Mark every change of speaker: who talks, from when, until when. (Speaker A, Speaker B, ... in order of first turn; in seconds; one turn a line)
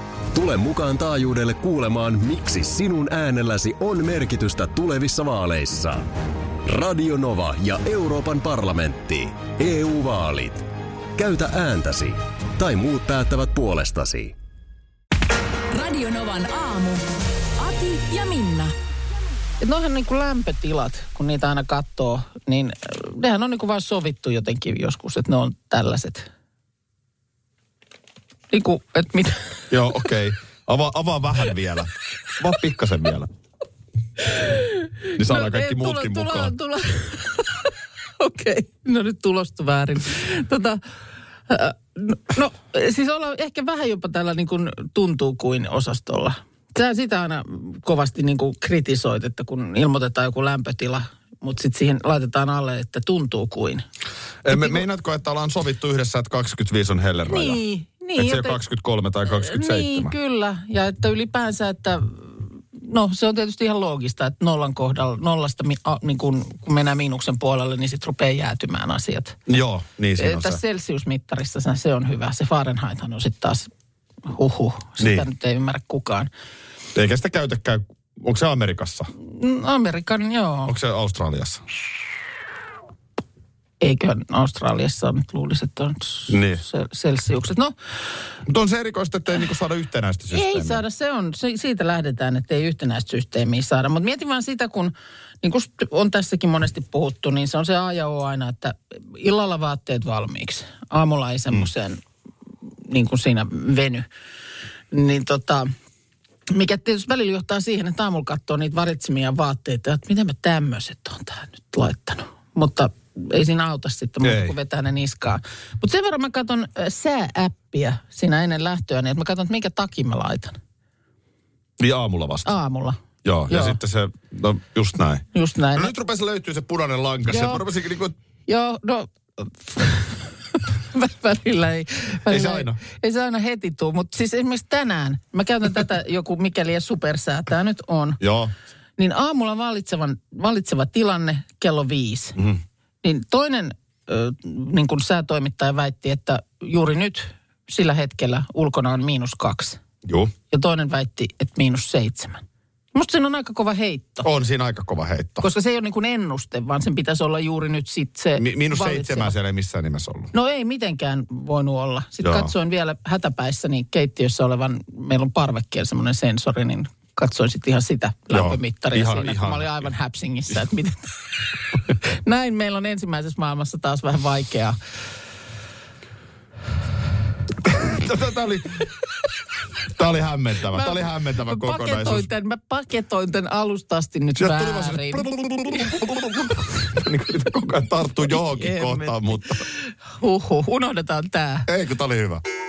Speaker A: 0.3-6.1
Speaker A: 6.6-14.3
Speaker B: 15.7-17.0
Speaker B: 17.6-18.7
Speaker C: 19.6-26.3
Speaker C: 28.5-29.6
Speaker D: 29.7-33.3
Speaker C: 34.3-40.8
Speaker D: 35.1-36.5
Speaker C: 41.5-53.8
Speaker D: 54.4-57.6
Speaker C: 54.5-54.8
Speaker C: 57.3-58.6
Speaker D: 58.1-60.1
Speaker C: 59.3-69.4
Speaker D: 69.5-70.6
Speaker C: 70.2-73.7
Speaker C: 74.2-76.3
Speaker D: 75.0-75.2
Speaker D: 76.9-79.1
Speaker C: 79.2-80.7
Speaker D: 80.7-81.6
Speaker C: 83.8-87.7
Speaker D: 86.3-86.6
Speaker D: 88.5-90.8
Speaker C: 90.3-102.0
Speaker C: 102.8-104.0
Speaker C: 104.9-105.7
Speaker C: 106.5-120.6
Speaker D: 114.2-114.5
Speaker D: 121.8-122.5
Speaker C: 122.4-123.8
Speaker D: 123.2-128.1
Speaker C: 125.3-125.9
Speaker C: 127.3-127.6
Speaker C: 128.5-138.2
Speaker D: 132.3-132.8
Speaker D: 138.2-138.5
Speaker C: 139.0-142.4
Speaker D: 142.3-142.6
Speaker C: 143.0-149.8
Speaker D: 150.0-150.3
Speaker C: 150.5-152.4
Speaker C: 152.9-154.3
Speaker D: 154.2-155.4
Speaker C: 155.4-159.3
Speaker D: 158.4-160.3
Speaker C: 160.3-171.1
Speaker D: 162.2-162.5
Speaker D: 168.3-169.9
Speaker C: 171.9-174.8
Speaker D: 177.6-178.9
Speaker D: 179.9-182.3
Speaker C: 180.7-185.9
Speaker D: 184.4-189.6
Speaker C: 188.3-191.7
Speaker D: 191.7-192.4